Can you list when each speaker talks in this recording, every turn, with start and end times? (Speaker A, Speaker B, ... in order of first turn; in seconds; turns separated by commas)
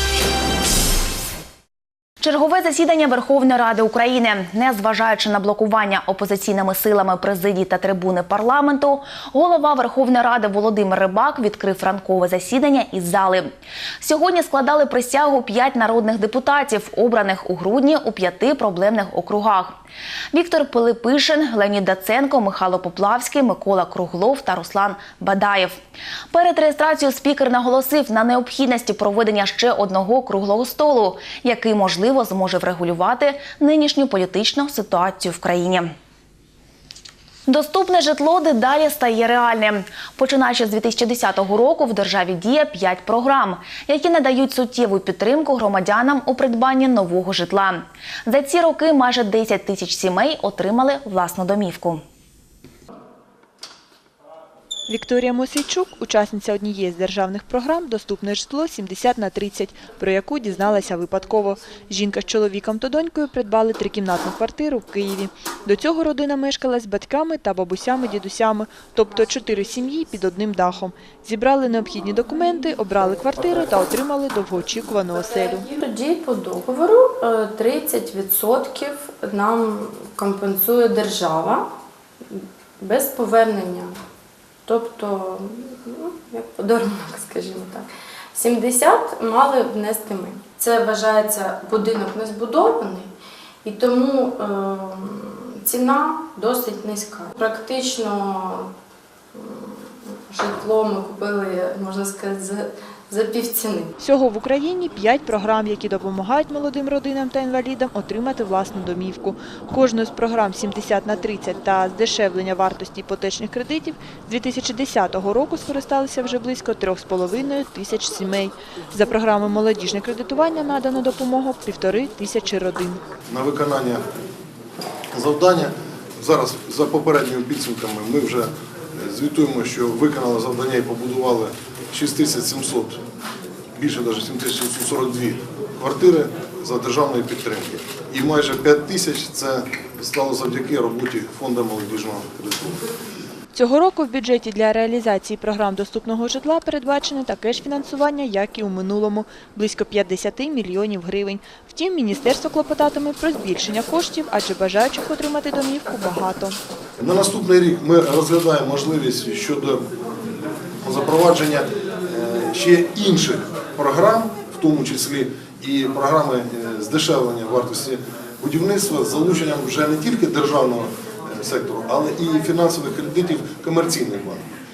Speaker A: 2.2-13.5, Speaker A: 14.0-19.8, Speaker A: 20.3-25.8, Speaker A: 26.3-35.9, Speaker A: 37.5-52.0, Speaker B: 54.9-75.6, Speaker C: 75.1-81.7, Speaker C: 82.3-84.0, Speaker C: 84.7-93.1, Speaker C: 93.6-98.7, Speaker C: 99.3-103.9, Speaker B: 104.0-123.0, Speaker D: 123.3-124.0, Speaker D: 125.1-133.0, Speaker D: 133.8-142.8, Speaker B: 143.5-156.6, Speaker D: 157.0-159.9, Speaker D: 160.8-174.4